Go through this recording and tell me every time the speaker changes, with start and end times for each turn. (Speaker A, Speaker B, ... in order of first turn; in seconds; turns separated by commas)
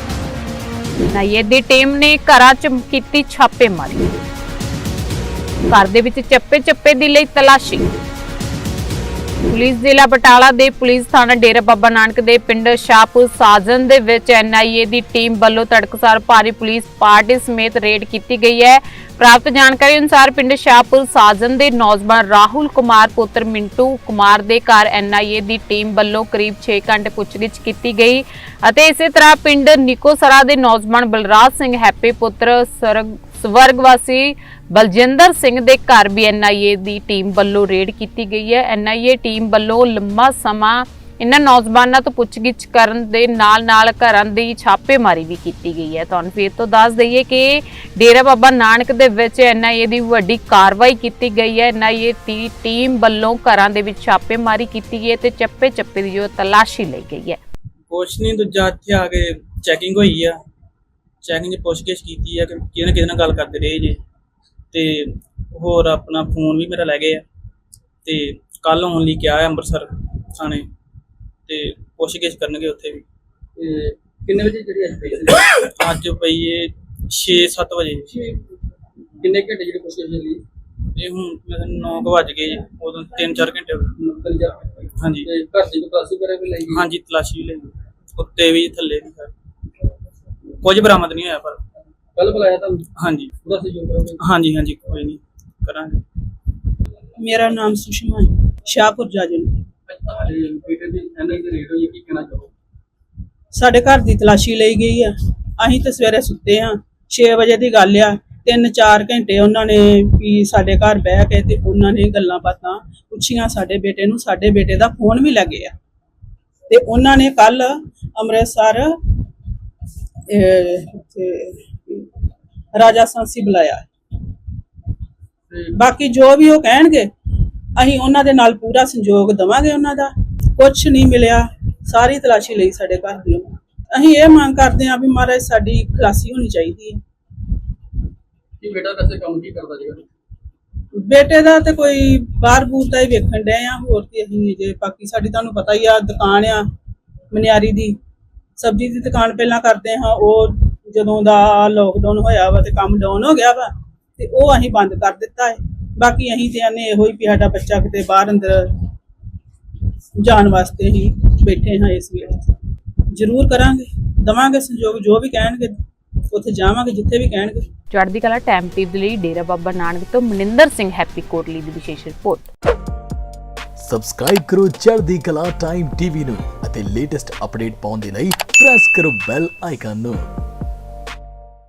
Speaker A: 1.1-4.1, Speaker A: 5.7-7.9, Speaker A: 9.5-57.4, Speaker B: 57.9-60.4, Speaker B: 61.2-64.0, Speaker B: 64.7-67.2, Speaker B: 68.0-70.7, Speaker B: 71.5-73.0, Speaker C: 73.6-75.7, Speaker B: 75.8-78.1, Speaker C: 79.2-80.4, Speaker B: 81.0-83.9, Speaker C: 84.0-86.9, Speaker B: 85.0-85.3, Speaker B: 86.7-89.3, Speaker B: 90.6-91.6, Speaker C: 92.2-94.2, Speaker B: 93.0-93.3, Speaker B: 94.2-96.0, Speaker D: 97.2-99.5, Speaker C: 99.9-102.5, Speaker D: 103.5-115.7, Speaker D: 116.7-119.0, Speaker D: 120.3-122.1, Speaker D: 122.7-123.9, Speaker D: 125.8-127.1, Speaker D: 127.8-137.0, Speaker C: 138.6-140.1, Speaker D: 140.9-146.7, Speaker D: 147.3-148.0, Speaker D: 148.6-158.8, Speaker D: 160.2-162.5, Speaker D: 163.1-165.8, Speaker D: 166.3-167.6, Speaker A: 167.9-172.5, Speaker E: 173.8-180.3